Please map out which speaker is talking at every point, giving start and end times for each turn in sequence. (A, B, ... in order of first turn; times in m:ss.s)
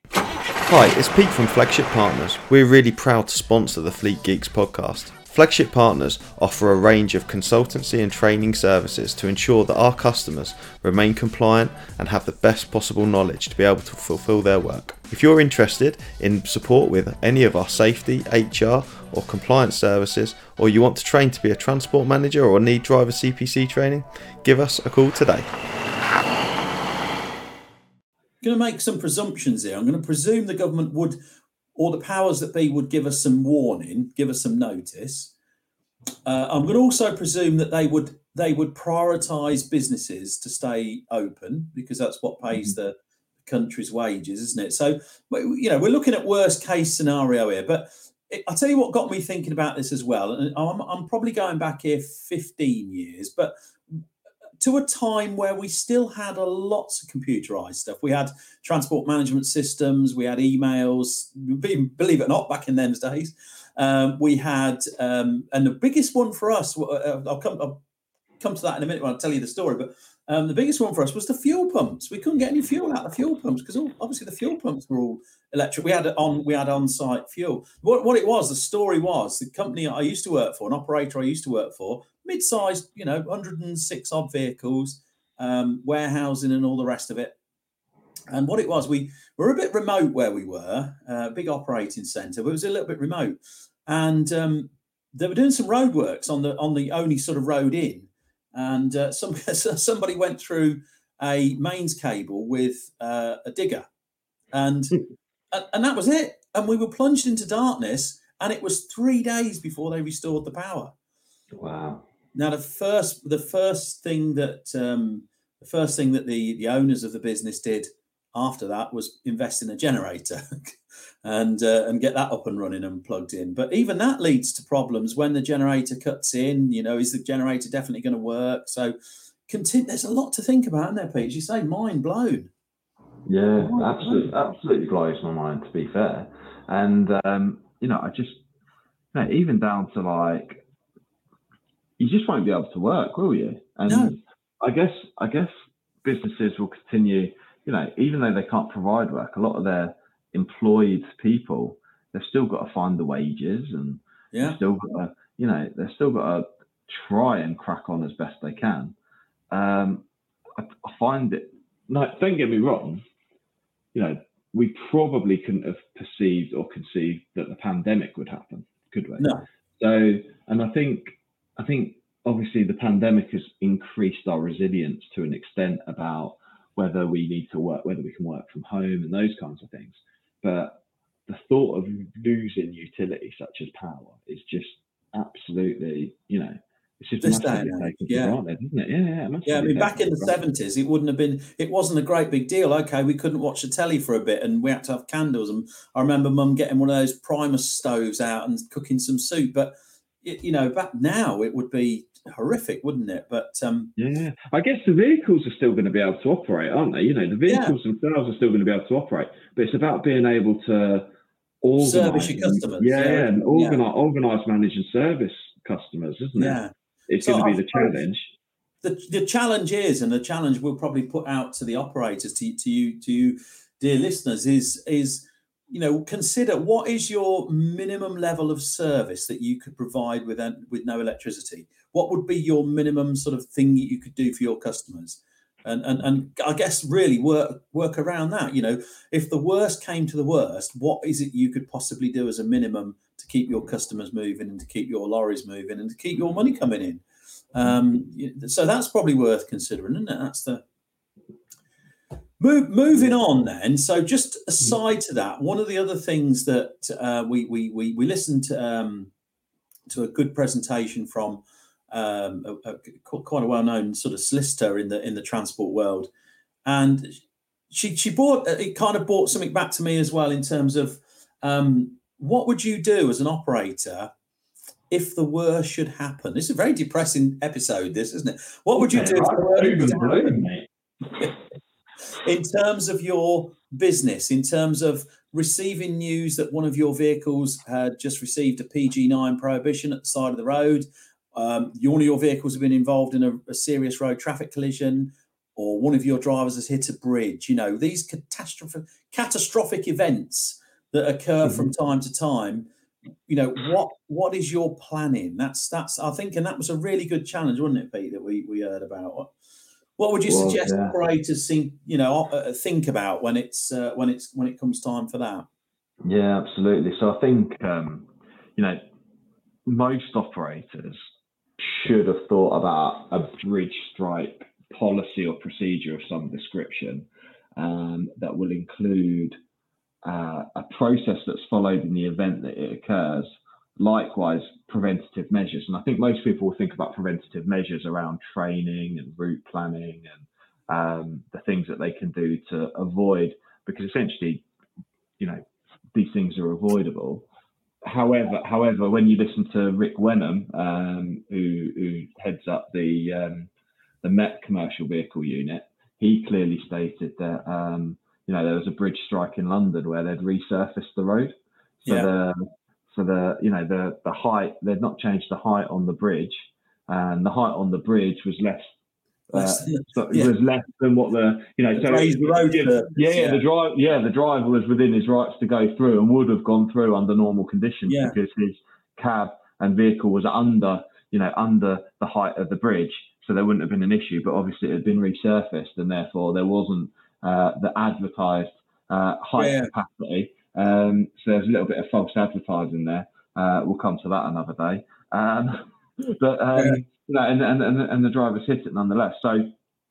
0:00.7-0:25.5 A
0:28.4-0:31.2 B
0:31.8-0:35.3 B
0:36.2-0:53.5 B
0:54.6-1:07.8 B
1:08.4-1:27.4 B
1:28.3-1:43.9 B
1:44.5-1:45.0 B
1:45.5-1:50.9 B
1:51.5-1:52.0 C
1:52.3-2:08.9 B
2:09.5-2:12.5 B
2:13.2-2:18.4 C
2:13.6-2:14.3 B
2:19.1-2:20.6 C
2:22.0-2:25.5 C
2:23.8-2:24.2 B
2:26.0-2:38.9 C
2:34.3-2:34.6 B
2:39.5-2:43.0 C
2:43.9-3:10.3 C
2:49.2-2:49.4 B
3:07.2-3:08.4 B
3:09.4-3:23.9 B
3:24.0-3:31.1 C
3:27.5-3:27.7 B
3:31.6-3:38.3 C
3:31.8-3:33.8 B
3:36.3-3:37.9 B
3:38.8-4:10.6 B
4:12.4-4:19.1 B
4:19.9-4:26.1 B
4:26.6-4:34.1 B
4:34.9-4:40.4 B
4:38.8-4:40.7 C
4:42.2-5:02.7 B
5:03.3-5:09.3 B
5:10.0-5:15.5 B
5:10.3-5:11.0 C
5:16.0-5:18.8 C
5:19.6-5:21.0 C
5:21.6-5:29.3 C
5:30.0-5:44.4 C
5:45.9-5:47.2 C
5:47.8-5:53.5 C
5:54.0-6:08.6 C
6:01.8-6:02.1 B
6:09.3-6:10.3 B
6:09.3-6:39.5 C
6:11.7-6:13.4 B
6:17.9-6:18.2 B
6:29.4-6:29.7 B
6:36.5-6:36.8 B